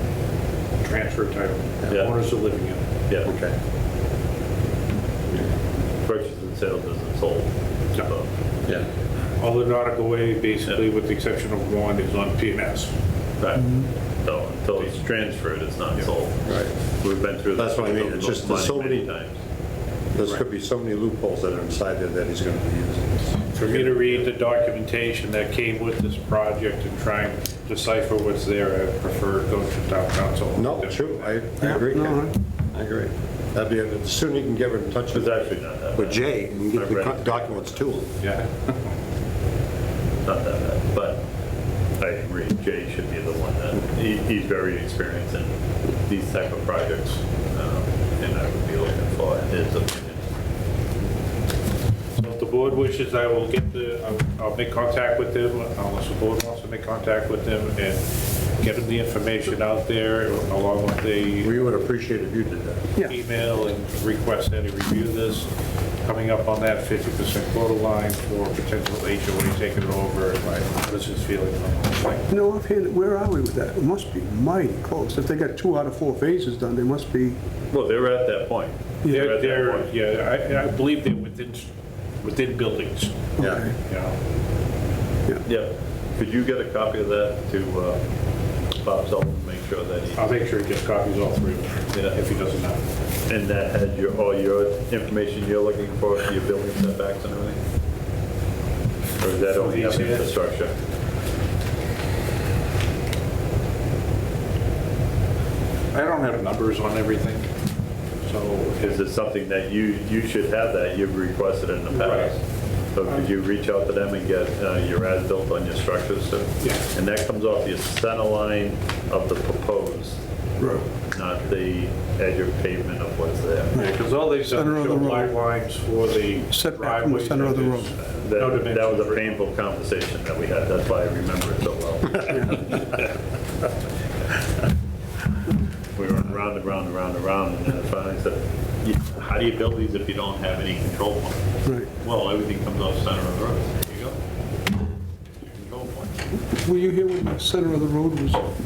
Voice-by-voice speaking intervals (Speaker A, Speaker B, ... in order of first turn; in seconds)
Speaker A: 0.8-2.8, 9.4-12.9, 23.5-31.9, 38.2-38.7, 52.2-61.6, 63.0-65.5, 66.0-72.3, 79.0-84.1, 90.2-92.8, 99.4-100.3, 105.9-107.5, 108.2-109.0, 111.9-112.3, 123.8-129.4
Speaker B: 3.2-3.5, 16.4-16.7, 17.6-19.1, 20.1-24.2, 30.6-38.1, 61.4-62.9
Speaker C: 6.0-8.3, 13.4-19.4, 35.1-37.9, 40.2-41.2, 42.0-45.5, 46.0-50.2, 77.7-79.9, 85.4-88.0, 88.8-90.2, 93.3-97.6, 99.2-100.7, 108.8-112.4, 112.9-123.8, 128.2-133.0, 135.9-144.2, 145.4-146.1
Speaker D: 31.6-32.3, 72.3-77.4, 83.4-83.7, 123.7-125.3, 126.5-127.9, 146.5-148.5